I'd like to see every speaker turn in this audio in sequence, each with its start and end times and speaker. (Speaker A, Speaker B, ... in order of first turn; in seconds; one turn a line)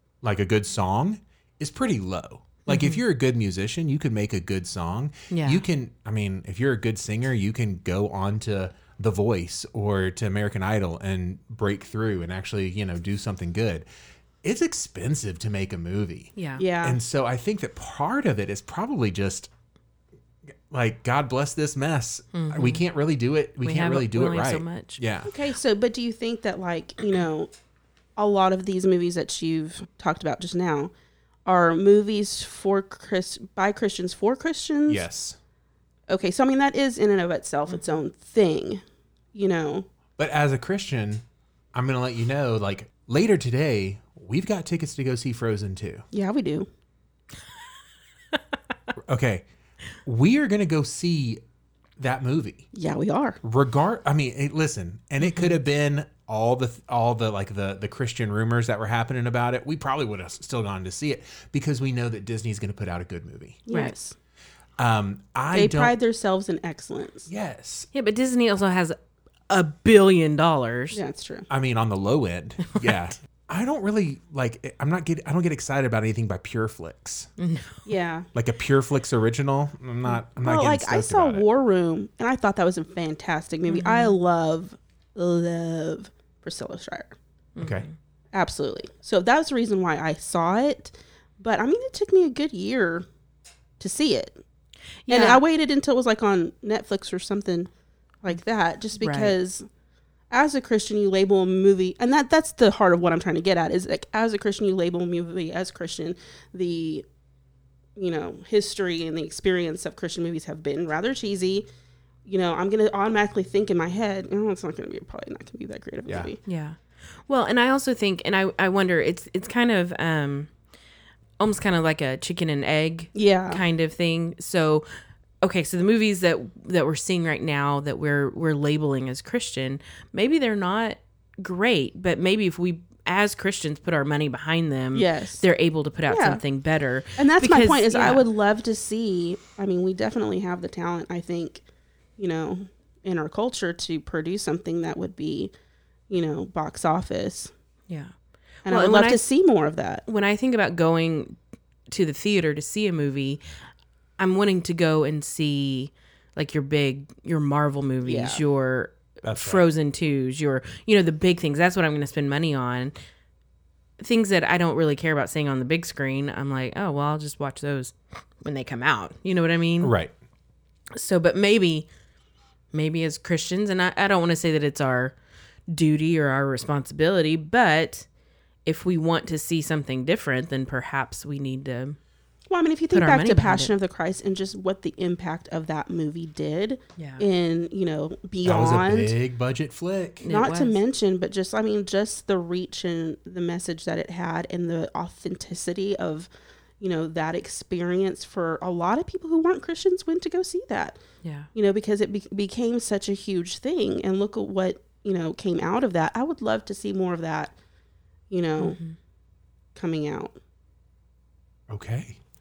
Speaker A: 0.2-13.8
Speaker B: 2.7-3.0
Speaker B: 5.3-5.6
Speaker A: 14.4-19.5
Speaker B: 16.4-16.6
Speaker C: 16.6-17.0
Speaker A: 20.7-25.3
Speaker B: 22.3-22.8
Speaker B: 23.6-25.0
Speaker C: 25.2-27.5
Speaker C: 28.1-30.9
Speaker C: 31.4-35.0
Speaker A: 34.9-35.4
Speaker C: 36.1-38.8
Speaker C: 39.3-39.9
Speaker A: 40.2-41.2
Speaker A: 41.7-46.0
Speaker C: 46.1-46.7
Speaker A: 49.0-49.4
Speaker A: 50.0-51.4
Speaker A: 52.0-52.6
Speaker C: 52.7-53.4
Speaker A: 53.4-63.6
Speaker B: 55.2-55.5
Speaker C: 63.7-64.2
Speaker A: 64.8-66.0
Speaker C: 65.5-67.3
Speaker A: 67.3-67.9
Speaker B: 67.9-69.0
Speaker B: 69.5-71.0
Speaker C: 70.9-71.5
Speaker A: 71.5-77.3
Speaker B: 77.4-77.8
Speaker C: 77.8-78.3
Speaker A: 78.3-81.5
Speaker C: 80.4-87.2
Speaker B: 83.7-84.2
Speaker B: 87.6-87.9
Speaker A: 87.6-87.9
Speaker C: 88.3-93.0
Speaker C: 93.8-94.4
Speaker B: 95.1-95.4
Speaker C: 95.1-97.7
Speaker C: 98.2-99.7
Speaker B: 99.0-99.3
Speaker C: 100.3-107.0
Speaker C: 108.0-111.7
Speaker C: 112.2-116.4
Speaker B: 116.5-120.5
Speaker B: 121.4-124.9
Speaker C: 123.1-123.6
Speaker B: 125.4-138.2
Speaker C: 134.9-135.4
Speaker C: 136.1-136.4
Speaker C: 137.2-141.6
Speaker C: 142.2-145.5
Speaker C: 146.1-147.5
Speaker B: 148.6-149.2
Speaker C: 148.7-150.0
Speaker B: 150.1-151.3
Speaker B: 151.9-153.4
Speaker B: 154.2-162.9
Speaker C: 158.0-158.4
Speaker A: 159.2-159.6
Speaker B: 164.0-169.9
Speaker A: 169.8-170.1
Speaker B: 170.9-171.9
Speaker B: 172.7-175.1
Speaker B: 175.7-178.1
Speaker B: 178.6-182.0
Speaker C: 182.5-189.1
Speaker B: 182.9-183.7
Speaker B: 187.0-187.2
Speaker A: 188.4-190.2
Speaker B: 190.2-190.8
Speaker C: 190.2-196.3
Speaker C: 196.8-201.0
Speaker C: 201.5-207.5
Speaker C: 208.3-208.8
Speaker B: 208.6-208.9
Speaker C: 209.7-210.4
Speaker A: 211.7-212.2